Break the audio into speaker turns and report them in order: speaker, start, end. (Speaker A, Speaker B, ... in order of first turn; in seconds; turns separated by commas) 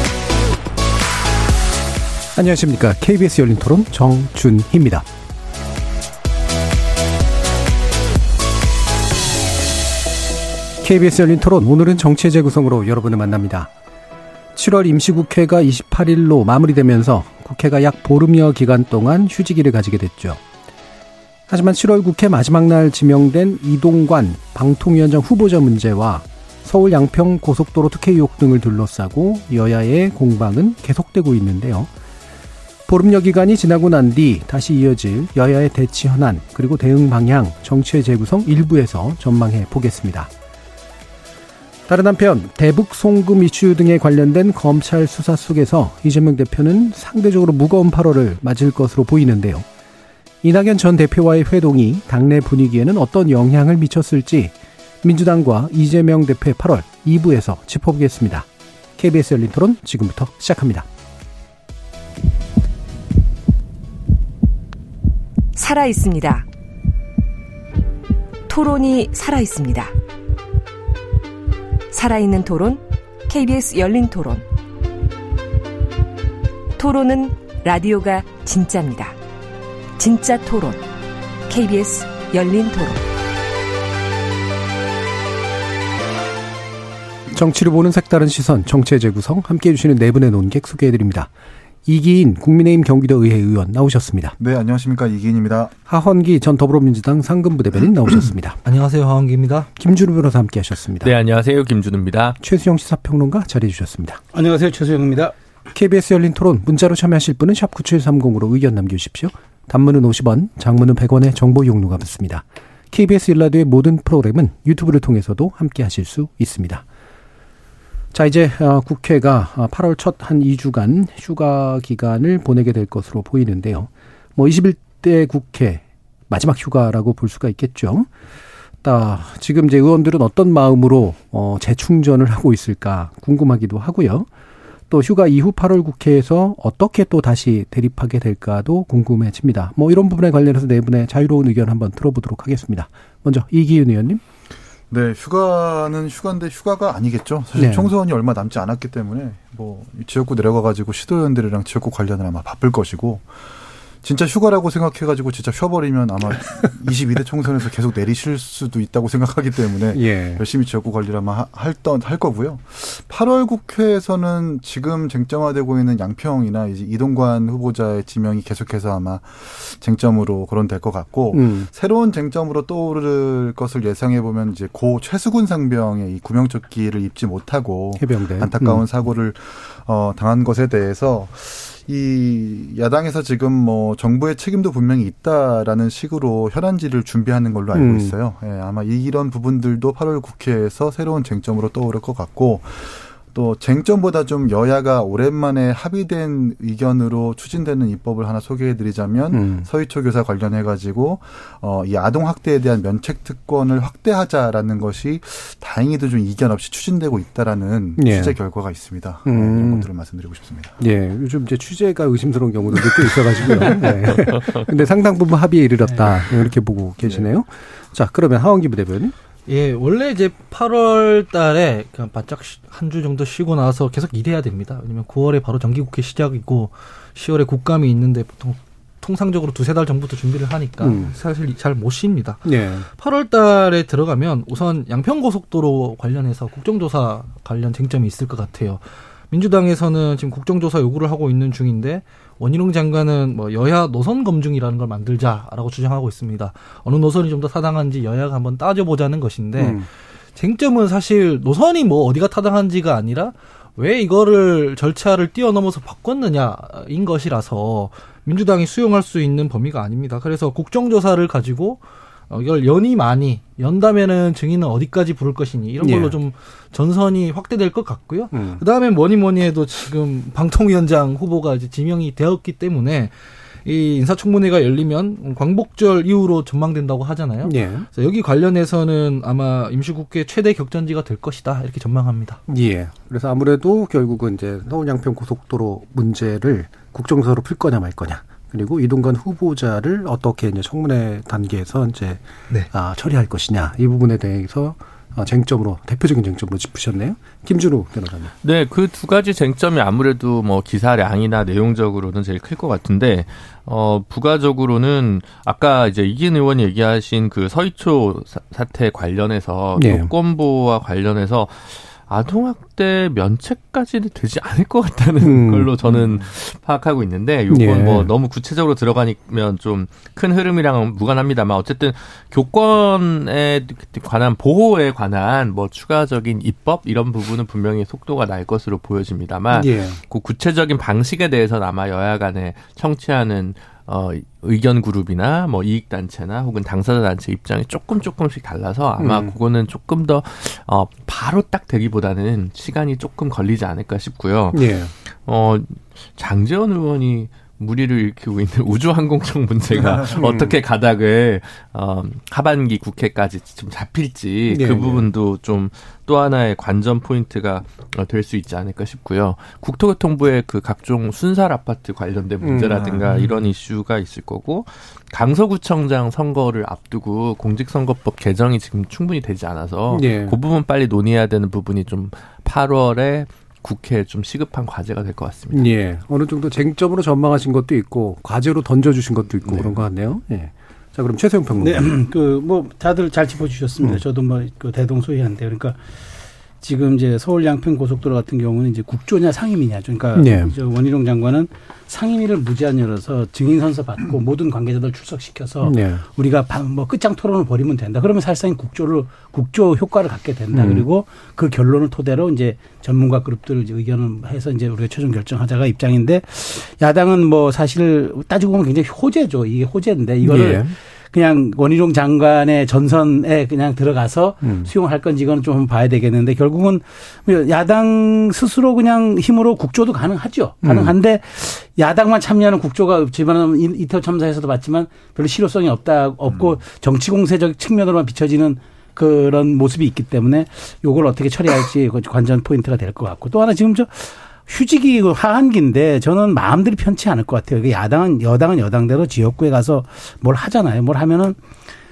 Speaker A: 2.3-5.1, Speaker A: 10.8-13.7, Speaker A: 14.5-20.4, Speaker A: 21.5-31.9, Speaker A: 32.9-40.3, Speaker A: 41.9-49.6, Speaker A: 50.4-60.9, Speaker B: 65.5-66.5, Speaker B: 68.5-69.9, Speaker B: 71.9-74.5, Speaker B: 76.8-79.2, Speaker B: 80.0-80.8, Speaker B: 81.5-83.0, Speaker A: 87.3-91.3, Speaker A: 91.8-94.3, Speaker C: 94.4-95.7, Speaker A: 95.9-98.6, Speaker D: 98.6-99.7, Speaker A: 99.8-101.1, Speaker E: 101.0-102.4, Speaker A: 102.4-104.2, Speaker F: 104.3-105.3, Speaker A: 105.7-116.8, Speaker A: 118.1-128.1, Speaker A: 128.8-134.3, Speaker A: 134.9-144.2, Speaker C: 144.9-153.3, Speaker A: 147.6-147.9, Speaker C: 154.0-210.8, Speaker A: 159.9-160.4, Speaker A: 171.3-171.7, Speaker A: 178.0-178.8, Speaker A: 187.7-188.1, Speaker A: 199.3-199.7, Speaker A: 208.0-208.4, Speaker A: 209.2-209.9, Speaker A: 210.8-219.1, Speaker E: 214.3-214.6, Speaker D: 219.5-273.1, Speaker A: 230.8-231.1, Speaker A: 232.4-232.9, Speaker A: 249.6-249.8, Speaker A: 265.8-266.1, Speaker A: 268.3-268.6, Speaker D: 273.6-282.4, Speaker A: 277.4-277.9, Speaker A: 282.5-298.3, Speaker E: 298.4-344.7, Speaker A: 309.8-310.1, Speaker A: 315.2-315.7, Speaker C: 315.8-316.2, Speaker A: 317.5-318.1, Speaker A: 329.5-330.0, Speaker A: 339.0-339.3, Speaker A: 344.5-344.9, Speaker E: 345.2-375.7, Speaker A: 350.0-350.5, Speaker A: 354.5-355.1, Speaker A: 362.4-363.1, Speaker A: 369.9-370.4, Speaker A: 375.5-381.9, Speaker E: 379.4-379.8, Speaker F: 381.6-385.8, Speaker F: 386.6-441.4, Speaker A: 390.1-390.5, Speaker A: 395.6-396.0, Speaker A: 400.5-400.8, Speaker A: 410.2-410.7, Speaker A: 414.4-414.7, Speaker A: 420.6-420.9, Speaker C: 426.3-426.6